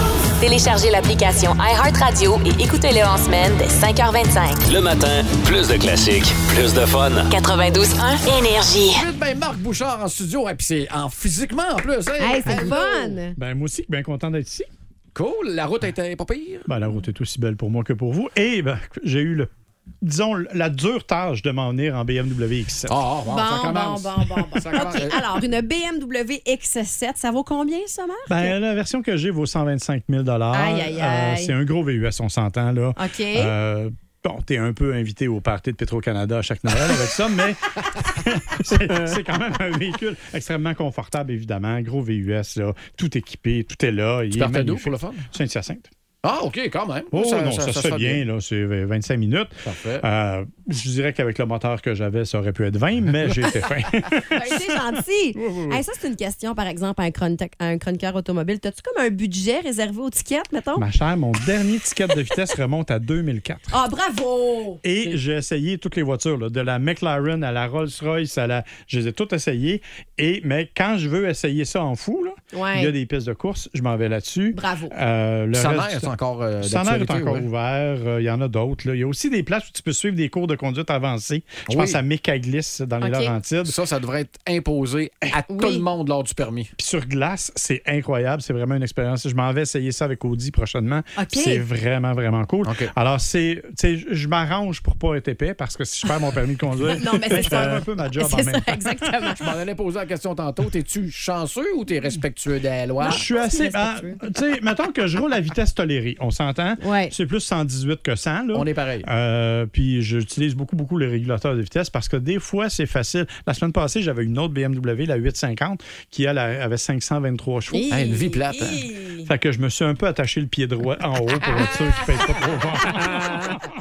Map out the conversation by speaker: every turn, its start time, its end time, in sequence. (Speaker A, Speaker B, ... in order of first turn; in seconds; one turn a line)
Speaker A: 0.4-4.6
Speaker B: 4.7-7.3
Speaker A: 7.3-9.0
Speaker C: 8.9-13.2
Speaker D: 12.2-13.4
Speaker E: 12.5-14.7
Speaker C: 15.1-16.7
Speaker E: 16.7-19.5
Speaker E: 20.0-23.0
Speaker C: 22.9-25.2
Speaker D: 23.2-28.6
Speaker E: 28.3-45.9
Speaker D: 30.5-31.5
Speaker D: 33.0-33.5
Speaker C: 44.3-45.3
Speaker C: 46.2-48.2
Speaker E: 47.1-55.8
Speaker C: 49.6-50.0
Speaker D: 54.3-60.9
Speaker E: 60.8-63.7
Speaker D: 63.7-64.8
Speaker E: 64.8-76.1
Speaker D: 72.5-72.9
Speaker D: 74.5-75.0
Speaker C: 75.5-77.5
Speaker E: 76.6-83.8
Speaker C: 81.7-82.0
Speaker D: 83.0-83.3
Speaker C: 83.6-86.7
Speaker D: 85.5-85.8
Speaker E: 86.8-99.1
Speaker D: 91.2-91.6
Speaker C: 92.6-92.9
Speaker D: 96.9-99.4
Speaker C: 99.4-103.3
Speaker D: 103.0-104.2
Speaker E: 103.0-118.0
Speaker D: 106.8-107.1
Speaker C: 108.5-109.1
Speaker D: 117.7-119.3
Speaker C: 117.9-118.9
Speaker E: 119.2-123.5
Speaker D: 122.9-123.4